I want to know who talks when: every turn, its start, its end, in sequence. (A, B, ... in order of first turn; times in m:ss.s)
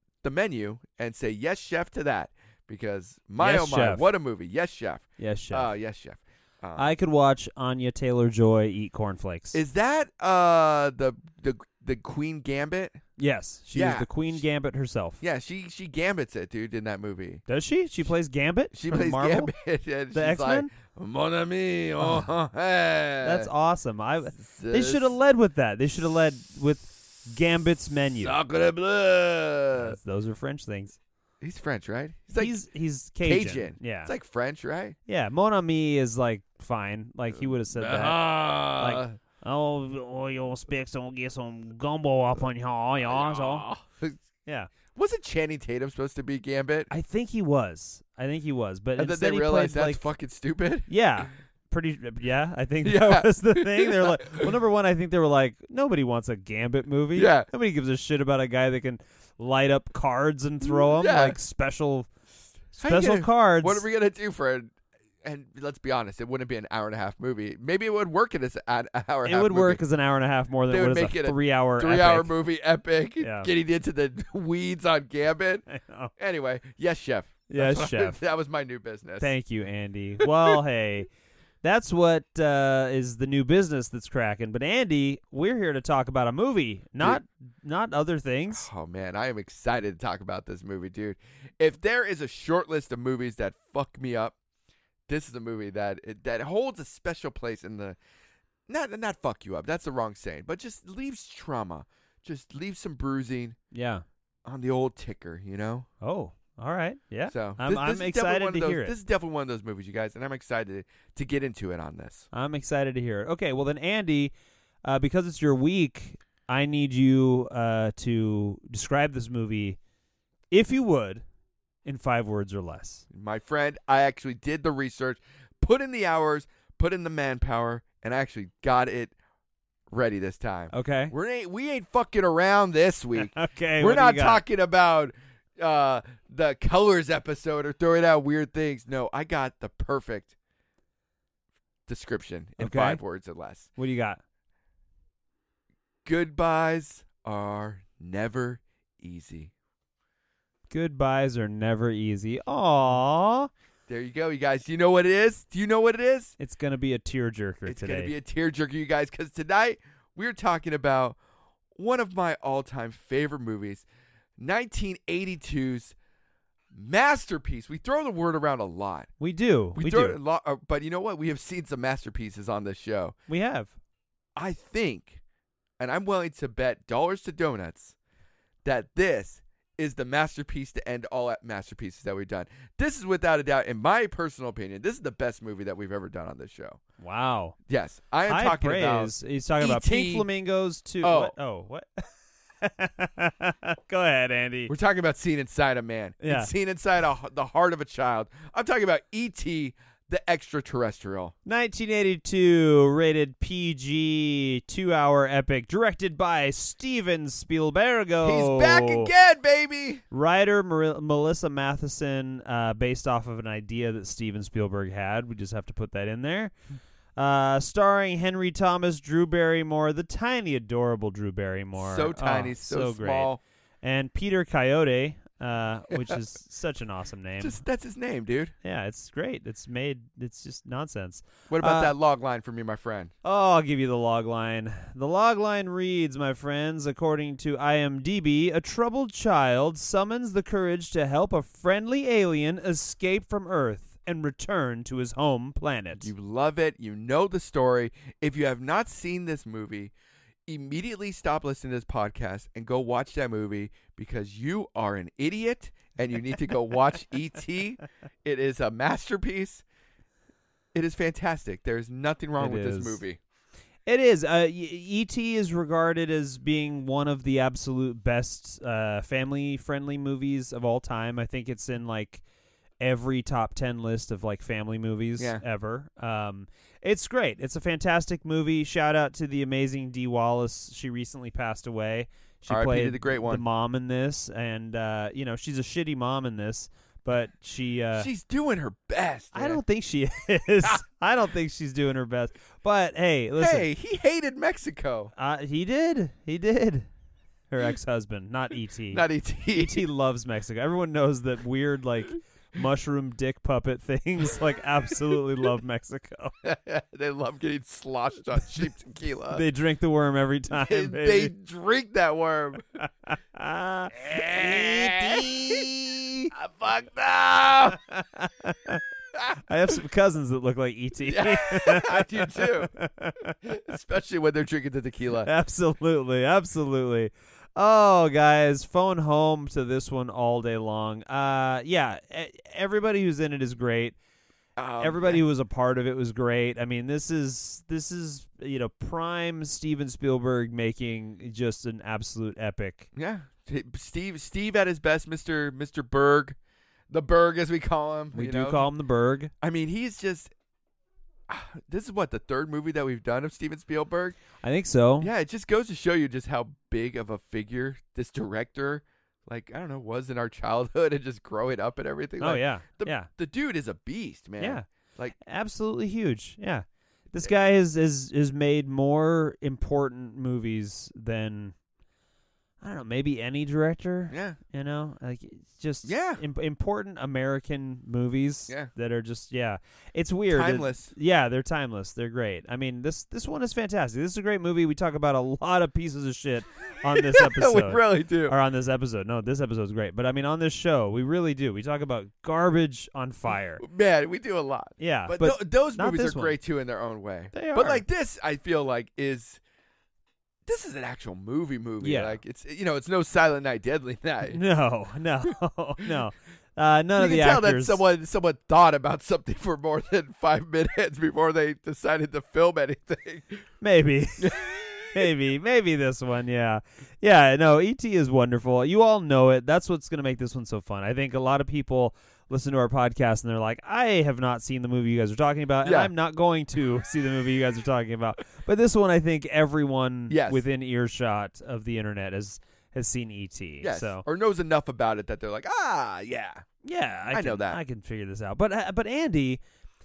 0:00.2-0:06.9 A
0:03.4-0:04.1 B
0:05.2-0:05.7 B
0:06.8-0:09.6 B
0:09.5-0:13.0 A
0:13.2-0:15.2 B
0:13.7-0:14.1 A
0:15.2-0:17.4 A
0:17.5-0:19.5 B
0:18.7-0:23.5 A
0:20.1-0:20.7 B
0:22.0-0:22.3 B
0:23.2-0:28.4 B
0:24.4-0:25.1 A
0:28.2-0:30.0 A
0:29.7-0:31.0 B
0:31.4-0:32.6 A
0:32.4-0:34.1 B
0:33.2-0:35.0 A
0:35.1-0:43.7 B
0:37.4-0:39.2 A
0:43.0-0:44.2 A
0:44.4-0:44.7 B
0:44.9-0:46.9 A
0:46.9-0:50.0 B
0:49.0-0:51.2 A
0:50.9-1:02.1 B
0:52.8-0:54.5 A
0:57.2-0:57.5 A
1:00.6-1:01.4 A
1:02.8-1:03.8 B
1:02.8-1:09.8 A
1:09.2-1:12.3 B
1:10.7-1:15.6 A
1:13.2-1:13.5 B
1:15.7-1:16.1 B
1:16.2-1:19.3 A
1:17.5-1:18.2 B
1:19.2-1:21.1 B
1:20.3-1:20.5 A
1:21.6-1:28.7 B
1:28.5-1:34.4 A
1:35.1-1:38.0 A
1:38.7-1:43.6 A
1:43.7-1:44.0 B
1:44.4-1:45.9 A
1:46.0-1:48.9 B
1:47.3-1:52.3 A
1:52.3-1:59.8 B
2:00.5-2:01.2 B
2:01.8-2:03.0 B
2:03.1-2:09.2 A
2:09.9-2:20.3 A
2:10.7-2:11.1 B
2:13.2-2:14.4 B
2:21.9-2:23.7 A
2:22.6-2:23.0 B
2:23.8-2:24.2 B
2:26.0-2:29.5 A
2:30.7-2:33.5 B
2:33.9-2:36.4 A
2:36.4-2:38.1 B
2:37.7-2:41.2 A
2:41.8-2:43.8 A
2:44.4-2:46.0 A
2:46.7-2:49.1 A
2:49.2-2:50.2 B
2:49.8-2:53.2 A
2:53.3-2:53.8 B
2:54.4-2:55.2 A
2:55.8-2:58.0 A
2:58.6-3:06.8 A
3:07.0-3:07.6 B
3:07.7-3:10.3 A
3:08.3-3:12.1 B
3:11.0-3:11.3 A
3:12.6-3:14.7 B
3:14.7-3:21.3 A
3:16.2-3:16.5 B
3:21.5-3:29.1 B
3:28.2-3:30.0 A
3:30.1-3:36.5 B
3:37.2-3:43.3 B
3:41.8-3:43.4 A
3:43.8-3:47.6 B
3:47.4-3:48.6 A
3:48.6-3:51.9 B
3:51.5-3:53.1 A
3:53.2-4:06.1 B
4:06.0-4:09.9 A
4:10.5-4:19.6 A
4:20.7-4:23.2 A
4:22.4-4:23.0 B
4:23.9-4:32.2 B
4:32.8-4:48.1 B
4:35.2-4:35.4 A
4:42.5-4:43.4 A
4:48.0-4:49.6 A
4:49.3-4:53.7 B
4:53.4-4:55.1 A
4:55.2-4:56.9 B
4:57.5-5:06.3 B
4:58.9-4:59.8 A
5:06.4-5:09.4 A
5:09.3-5:11.3 B
5:10.5-5:12.7 A
5:12.8-5:16.3 B
5:13.9-5:15.7 A
5:16.3-5:17.8 A
5:17.7-5:18.8 B
5:19.2-5:19.4 A
5:19.4-5:23.5 B
5:21.0-5:22.7 A
5:23.4-5:25.3 A
5:25.2-5:34.0 B
5:34.6-5:35.2 A
5:34.8-5:42.9 B
5:42.9-5:46.4 A
5:46.9-5:48.7 A
5:48.1-5:49.3 B
5:49.4-5:50.3 A
5:51.3-5:54.2 A
5:54.4-5:55.1 B
5:55.0-6:05.2 A
6:02.2-6:03.1 B
6:04.4-6:04.6 B
6:05.2-6:11.6 B
6:12.6-6:33.6 B
6:14.1-6:14.4 A
6:15.8-6:16.2 A
6:20.3-6:20.9 A
6:27.0-6:28.4 A
6:33.6-6:39.4 A
6:34.8-6:36.4 B
6:37.3-6:37.8 B
6:40.5-6:44.4 A
6:41.8-6:42.2 B
6:44.3-6:47.8 B
6:47.0-6:53.4 A
6:53.6-7:14.0 B
6:54.2-6:55.1 A
7:05.6-7:05.9 A
7:10.1-7:10.4 A
7:13.6-7:16.5 A
7:16.6-7:19.4 B
7:17.1-7:17.6 A